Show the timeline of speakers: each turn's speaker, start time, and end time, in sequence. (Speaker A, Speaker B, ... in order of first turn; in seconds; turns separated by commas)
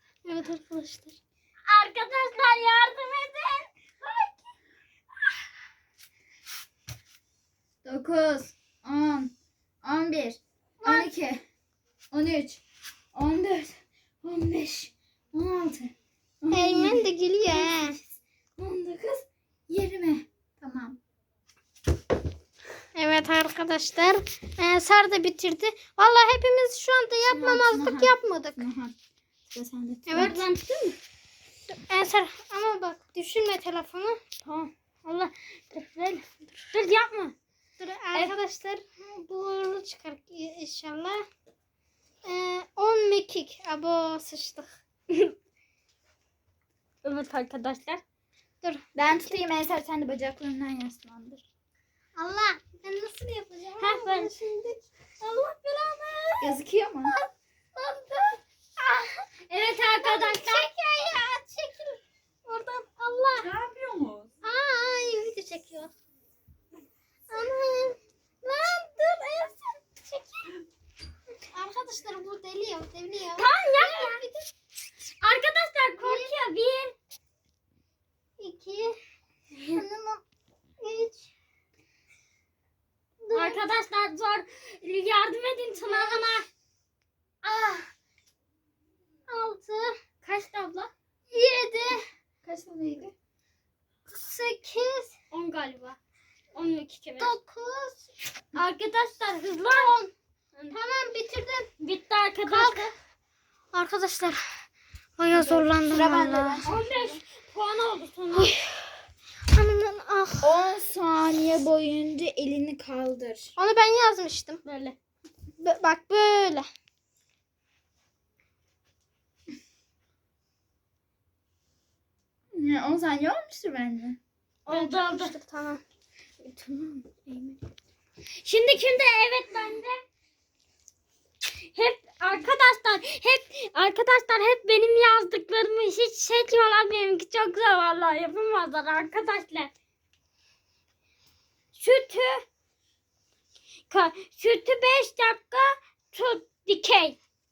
Speaker A: 0.3-1.2, Speaker B: 1.7-4.3, Speaker C: 7.8-11.4, Speaker A: 10.8-11.1, Speaker C: 12.1-12.6, Speaker C: 13.1-18.1, Speaker A: 16.5-18.0, Speaker C: 18.6-21.0, Speaker A: 23.0-28.6, Speaker C: 27.2-29.0, Speaker C: 29.5-30.4, Speaker A: 30.1-30.4, Speaker B: 30.1-31.0, Speaker A: 31.7-34.2, Speaker B: 34.4-37.4, Speaker A: 37.8-41.2, Speaker A: 42.2-44.7, Speaker B: 47.0-48.0, Speaker C: 49.0-51.4, Speaker A: 52.2-54.8, Speaker B: 53.8-54.3, Speaker B: 55.2-56.5, Speaker C: 56.4-57.1, Speaker A: 57.0-63.5, Speaker B: 59.5-60.7, Speaker C: 63.4-64.3, Speaker A: 64.4-65.9, Speaker A: 67.3-70.5, Speaker A: 71.5-74.5, Speaker B: 73.4-74.2, Speaker B: 75.2-77.0, Speaker A: 76.0-76.4, Speaker A: 78.4-79.0, Speaker A: 79.6-80.2, Speaker A: 80.8-81.3, Speaker A: 83.2-83.6, Speaker B: 83.3-86.5, Speaker A: 85.9-86.4, Speaker A: 87.4-87.9, Speaker A: 89.3-90.0, Speaker B: 90.2-90.9, Speaker A: 91.3-92.0, Speaker C: 92.4-93.1, Speaker A: 94.1-95.1, Speaker B: 95.3-96.0, Speaker B: 96.5-97.3, Speaker A: 97.2-98.1, Speaker B: 98.5-100.8, Speaker A: 100.7-101.7, Speaker B: 101.8-102.9, Speaker A: 102.5-102.9, Speaker A: 103.7-104.5, Speaker A: 105.2-106.7, Speaker C: 105.6-107.2, Speaker B: 106.7-108.5, Speaker A: 108.3-108.9, Speaker A: 109.5-110.5, Speaker C: 110.4-113.5, Speaker A: 113.6-114.6, Speaker B: 114.7-115.0, Speaker A: 115.6-116.7, Speaker C: 122.5-124.2, Speaker B: 124.7-125.3, Speaker A: 124.7-125.8, Speaker B: 126.5-127.6, Speaker B: 128.4-130.0, Speaker B: 131.7-139.7, Speaker B: 141.8-142.4, Speaker B: 143.9-147.2